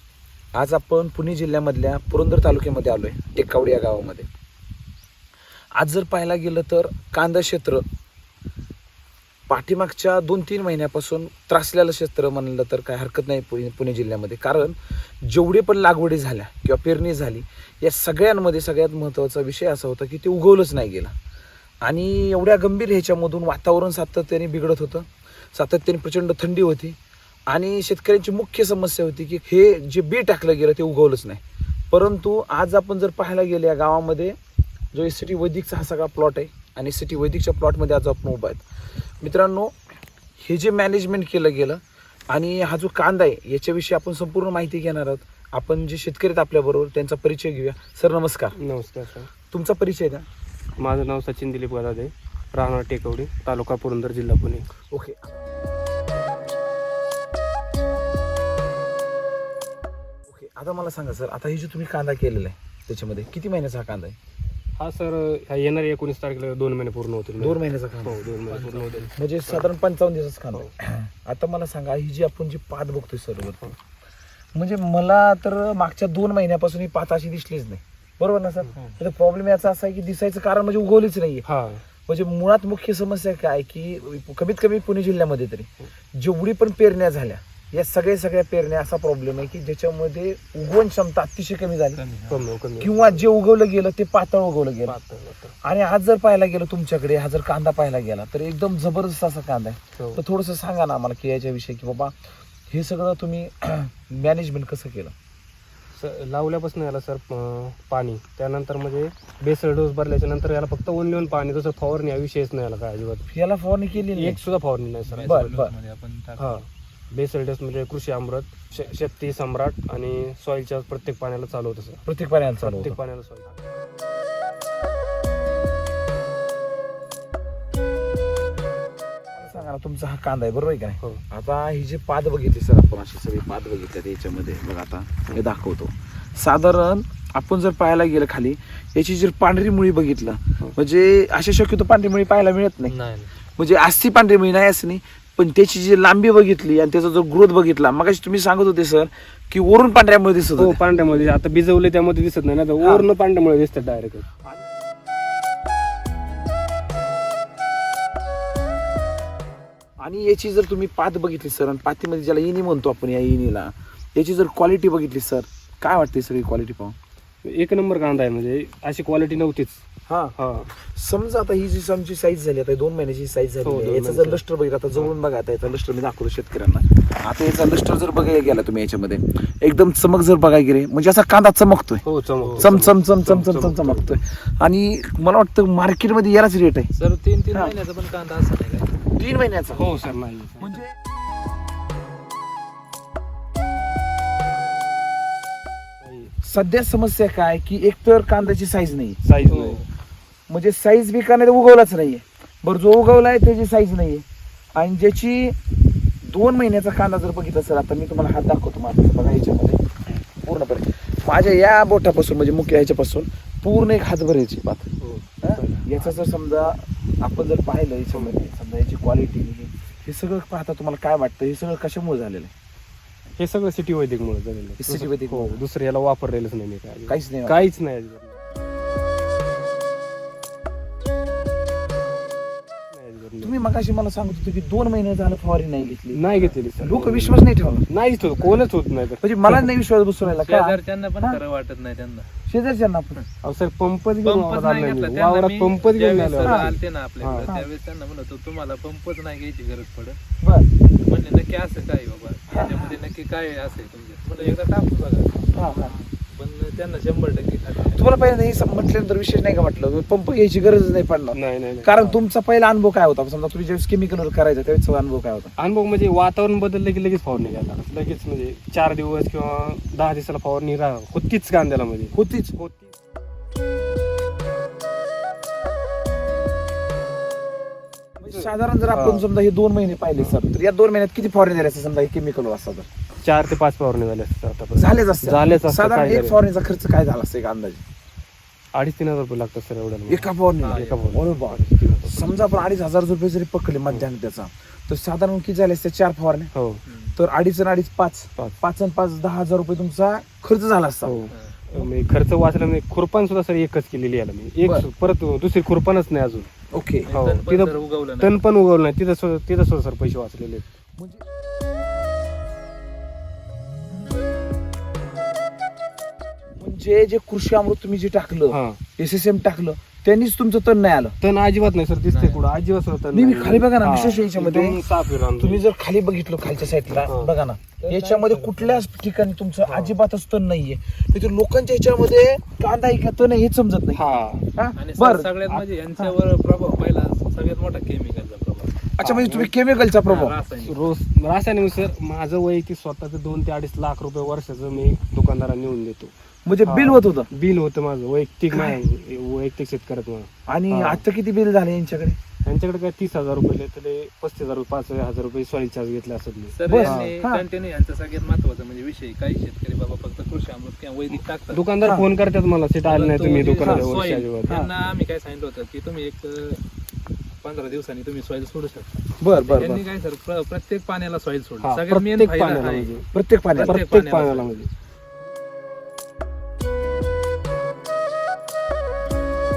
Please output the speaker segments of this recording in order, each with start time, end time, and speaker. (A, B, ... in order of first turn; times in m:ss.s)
0:00.5-0:04.3 A
0:05.7-0:07.8 A
0:09.5-0:21.1 A
0:21.8-0:27.0 A
0:27.5-0:34.4 A
0:34.9-0:38.6 A
0:39.2-0:39.8 A
0:40.4-0:48.6 A
0:48.5-0:49.3 B
0:49.5-0:50.2 A
0:50.8-0:54.7 B
0:54.9-0:55.4 A
1:00.3-1:04.2 A
1:04.8-1:09.6 B
1:07.4-1:08.2 A
1:08.5-1:09.2 C
1:09.2-1:13.7 A
1:14.5-1:21.4 A
1:21.4-1:21.8 B
1:22.1-1:32.0 A
1:32.0-1:32.4 C
1:32.3-1:33.2 B
1:32.8-1:35.0 A
1:34.8-1:35.5 B
1:35.6-1:42.2 A
1:40.0-1:40.2 B
1:42.7-1:45.1 A
1:45.9-1:53.2 B
1:53.3-1:54.4 A
1:53.9-1:55.5 B
1:55.1-1:56.6 C
1:55.2-1:55.7 A
1:56.4-2:02.0 B
2:02.0-2:03.0 A
2:02.6-2:03.5 B
2:09.3-2:23.0 A
2:22.9-2:23.3 C
2:23.6-2:30.8 A
2:30.6-2:34.2 B
2:32.8-2:33.1 A
2:40.0-2:47.0 A
2:47.4-2:50.7 B
2:50.1-2:50.3 A
2:50.9-3:02.0 A
2:53.6-2:54.4 B
3:02.0-3:04.1 B
3:02.6-3:06.9 A
3:06.9-3:08.9 C
3:09.1-3:10.9 A
3:09.7-3:10.8 B
3:16.0-3:16.3 B
3:16.4-3:19.2 A
3:19.2-3:19.8 B
3:19.4-3:19.8 C
3:20.5-3:24.2 A
3:24.7-3:25.6 A
3:26.2-3:34.9 A
3:35.4-3:42.5 A
3:35.4-3:36.0 B
3:43.4-3:48.4 B
3:44.8-3:45.6 A
3:47.1-3:47.6 A
3:52.9-3:53.5 B
3:53.4-3:57.8 A
3:56.1-3:59.6 B
3:59.2-4:01.4 A
4:00.3-4:02.3 C
4:02.5-4:03.2 A
4:03.4-4:07.5 B
4:04.2-4:10.2 C
4:06.4-4:06.7 A
4:10.4-4:10.7 A
4:11.0-4:18.0 C
4:12.5-4:13.0 A
4:15.5-4:15.9 A
4:17.9-4:25.5 A
4:21.3-4:22.2 B
4:25.6-4:32.9 B
4:32.1-4:32.5 A
4:38.2-4:42.9 A
4:38.3-4:39.2 B
4:40.2-4:40.4 B
4:43.2-4:46.4 B
4:44.8-4:47.8 A
4:48.7-4:52.6 B
4:50.1-4:56.5 A
4:50.6-4:51.1 C
4:56.5-4:56.8 B
4:56.8-4:57.2 C
4:57.2-5:01.1 A
5:01.0-5:06.5 B
5:06.7-5:07.1 A
5:07.1-5:08.4 C
5:07.1-5:10.6 B
5:11.0-5:11.2 A
5:16.6-5:21.2 A
5:18.5-5:18.8 B
5:21.2-5:25.6 B
5:22.1-5:22.4 C
5:23.1-5:24.8 A
5:25.4-5:34.0 A
5:27.0-5:27.3 B
5:27.8-5:28.8 C
5:29.6-5:30.0 B
5:33.9-5:34.5 B
5:34.6-5:36.1 A
5:34.8-5:38.8 C
5:39.0-5:40.4 A
5:39.0-5:39.5 B
5:40.0-5:40.8 C
5:40.6-5:46.1 B
5:46.4-5:47.3 A
5:46.6-5:51.0 B
5:48.5-5:48.8 A
5:50.5-5:52.2 A
5:52.4-5:57.1 B
5:56.5-6:01.6 C
5:56.7-5:57.4 A
6:01.5-6:04.6 B
6:01.8-6:02.1 A
6:02.9-6:06.6 C
6:07.4-6:12.9 C
6:09.2-6:09.8 A
6:11.6-6:13.1 B
6:13.1-6:13.8 A
6:13.5-6:14.5 C
6:13.6-6:14.7 B